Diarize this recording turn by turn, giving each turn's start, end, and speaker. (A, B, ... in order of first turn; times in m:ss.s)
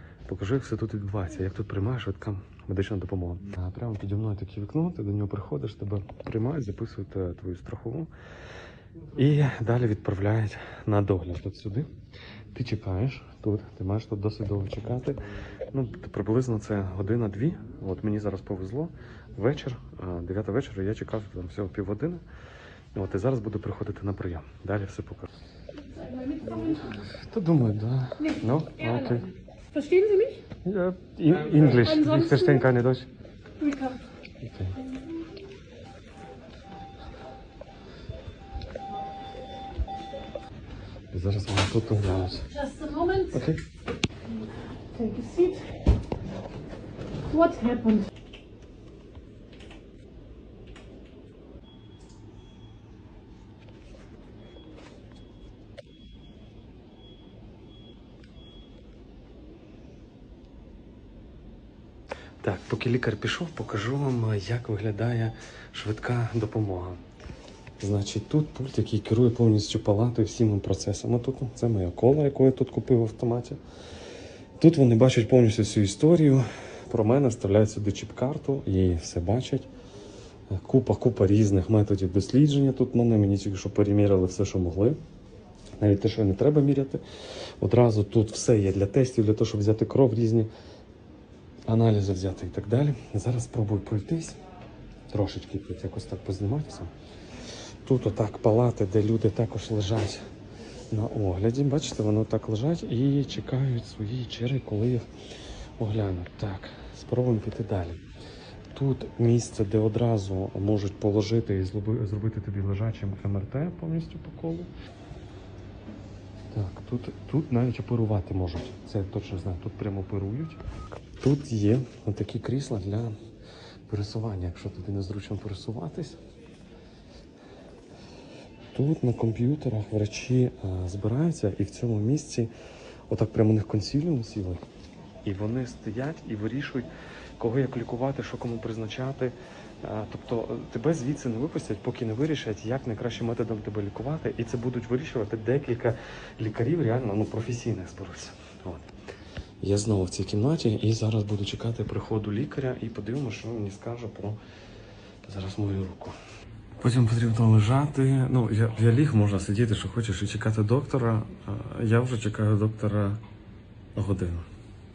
0:00.3-0:08.1 A
0:09.1-0:11.9 A
0:12.5-0:22.2 A
0:23.0-0:25.3 A
0:25.7-0:27.0 B
0:26.9-0:29.3 A
0:28.2-0:30.4 B
0:30.6-0:33.1 A
0:31.6-0:32.7 B
0:33.6-0:34.0 B
0:34.4-0:34.8 A
0:41.1-0:42.5 A
0:42.5-0:43.4 B
0:43.3-0:43.6 A
0:44.9-0:45.8 B
0:47.3-0:48.1 B
1:02.4-1:07.0 A
1:07.8-1:13.6 A
1:14.6-1:19.7 A
1:20.5-1:25.0 A
1:25.8-1:27.0 A
1:27.6-1:30.5 A
1:31.7-1:34.4 A
1:35.1-1:36.9 A
1:37.8-1:40.2 A
1:40.9-1:45.1 A
1:45.8-1:48.0 A
1:48.7-1:54.7 A
1:56.5-2:00.6 A
2:01.2-2:03.2 A
2:03.9-2:06.2 A
2:08.7-2:12.5 A
2:13.1-2:14.6 A
2:15.2-2:28.8 A
2:29.6-2:34.4 A
2:35.2-2:36.2 A
2:36.8-2:43.2 A
2:43.9-2:44.4 A